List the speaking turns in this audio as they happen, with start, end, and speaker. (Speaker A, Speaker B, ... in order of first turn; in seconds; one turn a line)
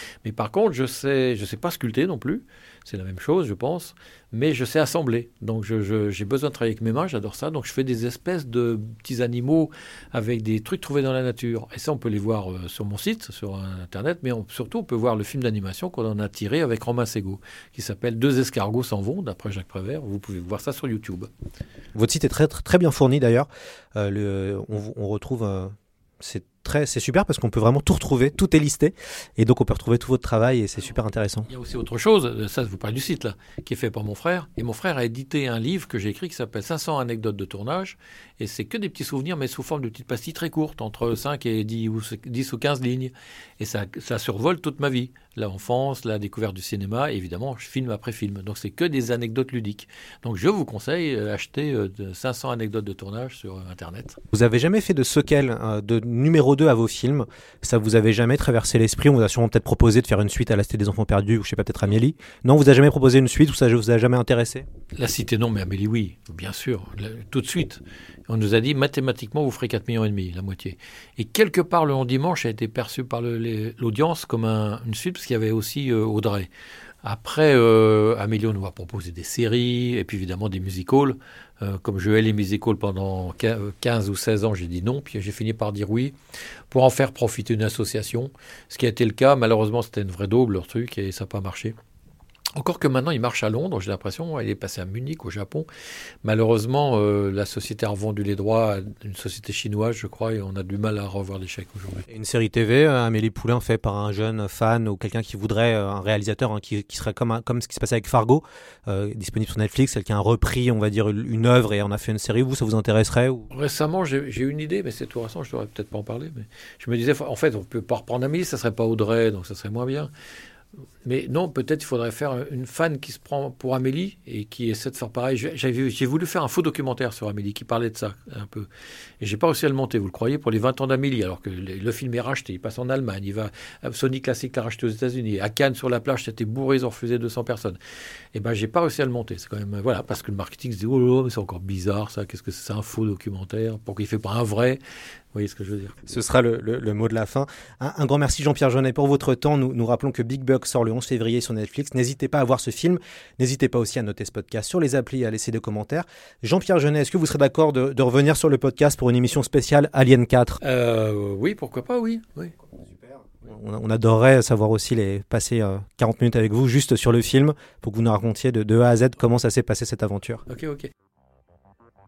Speaker A: 0.2-21.3
Speaker B: 21.9-31.5
Speaker A: 31.5-54.2
Speaker B: 54.3-64.7
Speaker A: 65.0-76.5
Speaker A: 77.0-86.2
Speaker A: 86.7-91.8
Speaker A: 92.5-95.7
Speaker A: 96.2-102.0
Speaker B: 102.1-113.5
Speaker A: 113.5-120.1
Speaker A: 121.0-128.7
Speaker A: 129.2-137.8
Speaker A: 138.3-144.8
Speaker A: 145.3-145.9
Speaker B: 146.0-160.6
Speaker A: 160.6-162.5
Speaker B: 162.6-170.4
Speaker A: 170.5-170.9